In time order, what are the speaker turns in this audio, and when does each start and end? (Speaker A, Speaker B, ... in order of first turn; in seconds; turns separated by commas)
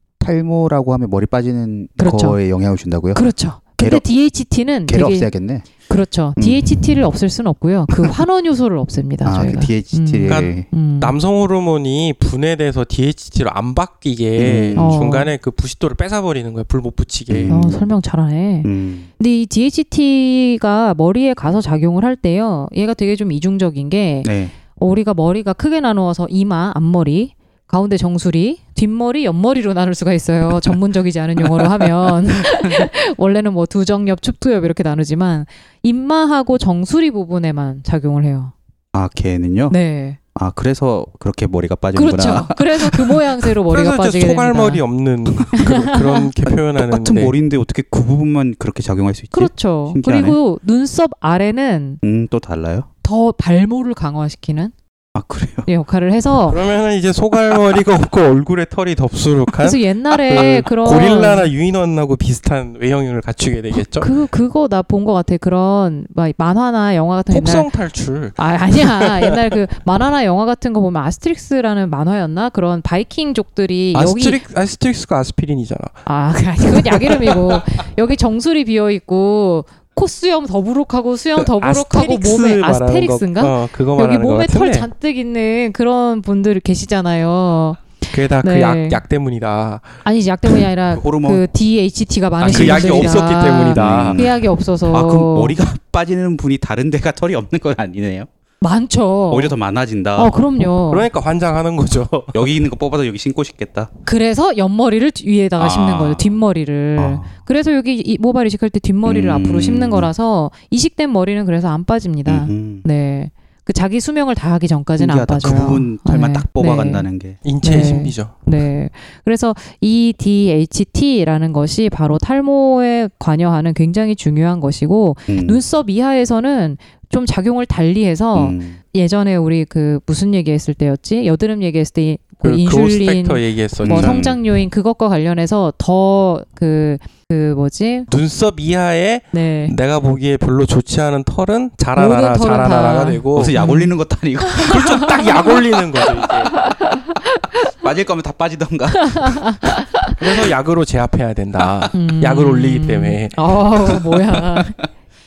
Speaker A: 0.2-3.3, Speaker B: 2.0-2.4, Speaker B: 3.1-5.3, Speaker A: 3.8-4.0, Speaker A: 4.9-5.7, Speaker B: 5.8-11.1, Speaker A: 6.4-6.8, Speaker A: 9.2-10.7, Speaker C: 10.3-17.6, Speaker A: 14.4-15.0, Speaker B: 14.8-15.3, Speaker A: 17.3-17.9, Speaker B: 17.5-38.5, Speaker A: 18.6-19.1, Speaker A: 24.2-24.5, Speaker A: 32.3-32.9, Speaker A: 38.9-39.8, Speaker B: 39.7-40.2, Speaker A: 40.3-43.2, Speaker B: 41.9-44.8, Speaker C: 43.7-47.3, Speaker B: 45.5-46.2, Speaker A: 46.5-50.4, Speaker B: 49.3-52.0, Speaker A: 52.0-52.9, Speaker B: 53.0-54.7, Speaker A: 55.1-55.7, Speaker B: 55.7-56.6, Speaker C: 56.5-64.1, Speaker B: 59.6-61.5, Speaker B: 63.7-67.7, Speaker C: 67.3-69.3, Speaker B: 68.3-74.4, Speaker C: 73.9-76.0, Speaker B: 76.0-89.0, Speaker C: 76.7-77.6, Speaker C: 81.4-84.9, Speaker C: 88.1-90.0, Speaker B: 90.0-95.6, Speaker A: 90.9-91.5, Speaker C: 92.4-94.2, Speaker A: 92.4-93.2, Speaker A: 93.7-98.3, Speaker B: 98.6-99.5, Speaker A: 99.3-100.3, Speaker B: 100.2-101.1, Speaker C: 100.7-102.5, Speaker A: 102.3-103.9, Speaker B: 104.0-117.1, Speaker A: 105.6-106.4, Speaker A: 107.0-107.3, Speaker A: 109.0-110.1, Speaker A: 112.3-112.8, Speaker A: 115.0-117.4, Speaker C: 117.4-118.3, Speaker B: 117.6-138.1, Speaker A: 125.3-125.6, Speaker A: 128.3-128.8, Speaker C: 132.4-134.3, Speaker A: 133.8-134.4, Speaker C: 138.1-143.6, Speaker B: 139.3-139.7, Speaker B: 141.9-145.6, Speaker A: 143.3-145.3, Speaker C: 144.7-146.5, Speaker B: 146.5-147.6, Speaker A: 147.7-149.5, Speaker B: 149.0-150.2, Speaker C: 150.2-153.4, Speaker B: 151.9-154.8